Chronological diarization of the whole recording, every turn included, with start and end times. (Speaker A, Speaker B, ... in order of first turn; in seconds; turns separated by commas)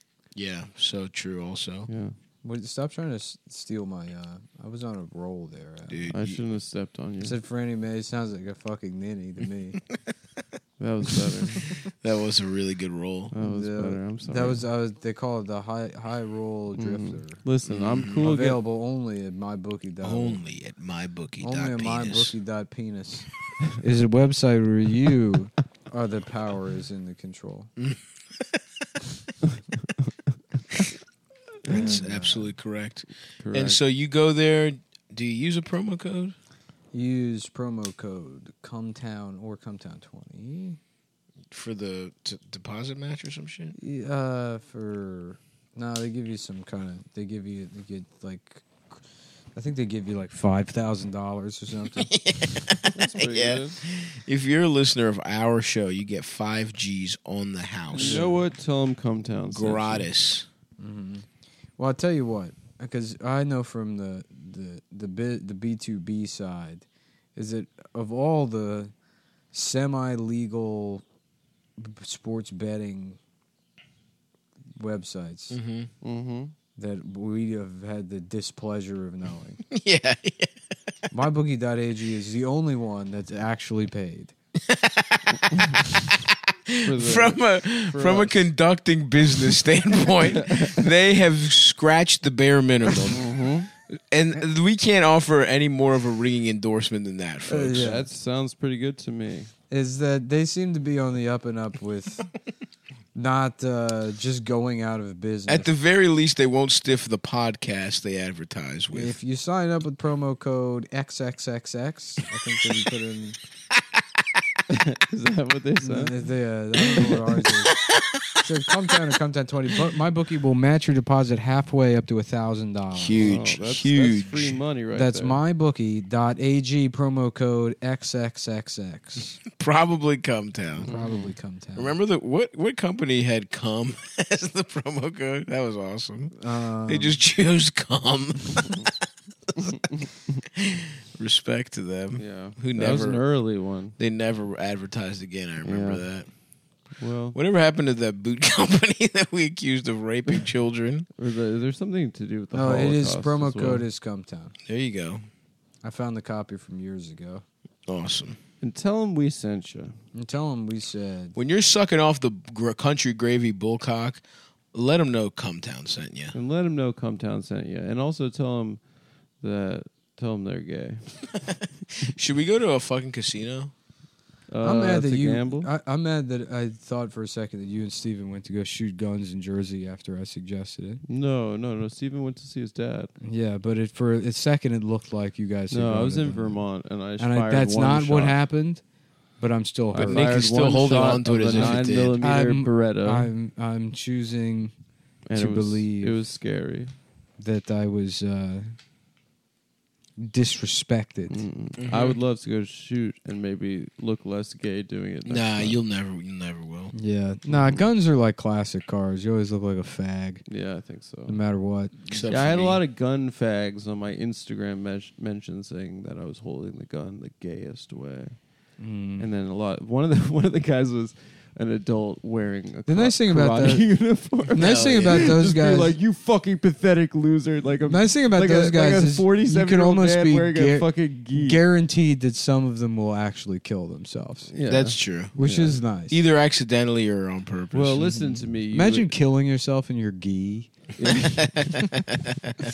Speaker A: 0.3-1.9, Speaker B: 1.9-2.1, Speaker C: 2.4-6.1, Speaker A: 5.9-6.4, Speaker B: 6.1-7.4, Speaker C: 7.2-9.8, Speaker B: 10.8-11.7, Speaker A: 12.0-13.3, Speaker B: 13.3-14.6, Speaker C: 13.3-17.4, Speaker B: 16.7-18.6, Speaker A: 17.7-18.2, Speaker C: 18.2-20.4, Speaker A: 20.0-22.3, Speaker C: 21.4-23.3, Speaker C: 23.8-27.7, Speaker A: 31.6-36.3, Speaker C: 31.7-32.5, Speaker B: 33.4-33.8, Speaker C: 36.9-40.8, Speaker A: 41.5-43.7, Speaker C: 43.8-49.0, Speaker C: 49.5-52.1, Speaker A: 52.0-58.3, Speaker B: 52.9-53.8, Speaker B: 57.9-60.0, Speaker C: 58.0-58.4, Speaker A: 59.5-60.5, Speaker C: 60.8-68.9, Speaker C: 69.5-71.0, Speaker C: 71.8-73.2, Speaker C: 74.8-75.6, Speaker A: 75.5-75.9, Speaker B: 76.0-76.5, Speaker C: 76.8-79.6, Speaker A: 79.7-80.5, Speaker C: 81.1-84.3, Speaker A: 84.7-85.4, Speaker A: 86.7-93.3, Speaker B: 86.8-88.3, Speaker B: 90.4-90.8, Speaker B: 93.1-93.7, Speaker A: 94.0-97.9, Speaker C: 97.5-98.1, Speaker B: 97.7-99.5, Speaker C: 99.7-102.3, Speaker C: 103.1-105.7, Speaker A: 105.5-109.1, Speaker C: 108.9-113.4, Speaker B: 114.7-116.1, Speaker C: 115.8-117.8, Speaker C: 118.3-123.3, Speaker A: 123.0-124.6, Speaker B: 123.2-125.4, Speaker C: 124.9-129.4, Speaker A: 129.5-130.9, Speaker C: 130.8-132.0, Speaker B: 130.8-131.3, Speaker A: 131.8-138.8, Speaker C: 136.4-137.2, Speaker B: 139.6-140.0, Speaker A: 140.6-143.2, Speaker B: 142.2-143.9, Speaker A: 144.0-146.3, Speaker B: 145.6-146.1, Speaker B: 147.0-147.4, Speaker A: 147.3-151.1, Speaker B: 151.2-153.8, Speaker C: 152.5-154.5, Speaker A: 154.7-155.2, Speaker C: 155.8-157.4, Speaker A: 157.9-158.4, Speaker B: 158.6-159.9, Speaker C: 160.1-161.3, Speaker A: 161.3-164.2, Speaker A: 164.7-166.3, Speaker B: 166.3-168.8, Speaker B: 169.4-171.3, Speaker A: 172.1-173.7, Speaker B: 174.5-175.7, Speaker C: 174.6-181.0, Speaker B: 181.1-183.1, Speaker C: 183.2-188.8, Speaker B: 185.7-188.4, Speaker C: 189.4-194.7, Speaker B: 189.9-193.3, Speaker A: 190.0-192.2, Speaker B: 195.2-196.9, Speaker C: 195.3-196.2, Speaker C: 197.4-198.7, Speaker C: 200.2-201.4, Speaker B: 201.3-205.8, Speaker A: 201.8-202.2, Speaker A: 205.2-206.9, Speaker C: 206.9-210.4, Speaker B: 210.5-211.4, Speaker C: 211.3-211.9, Speaker A: 212.1-212.8, Speaker B: 212.3-218.6, Speaker C: 218.8-219.3, Speaker B: 219.2-231.6, Speaker C: 222.9-226.0, Speaker A: 224.6-225.3, Speaker C: 227.8-234.5, Speaker B: 234.5-235.8, Speaker A: 234.7-235.3, Speaker C: 235.3-236.2, Speaker A: 236.1-238.1, Speaker B: 237.7-239.1, Speaker C: 238.1-241.5, Speaker B: 241.0-241.4, Speaker A: 241.4-241.8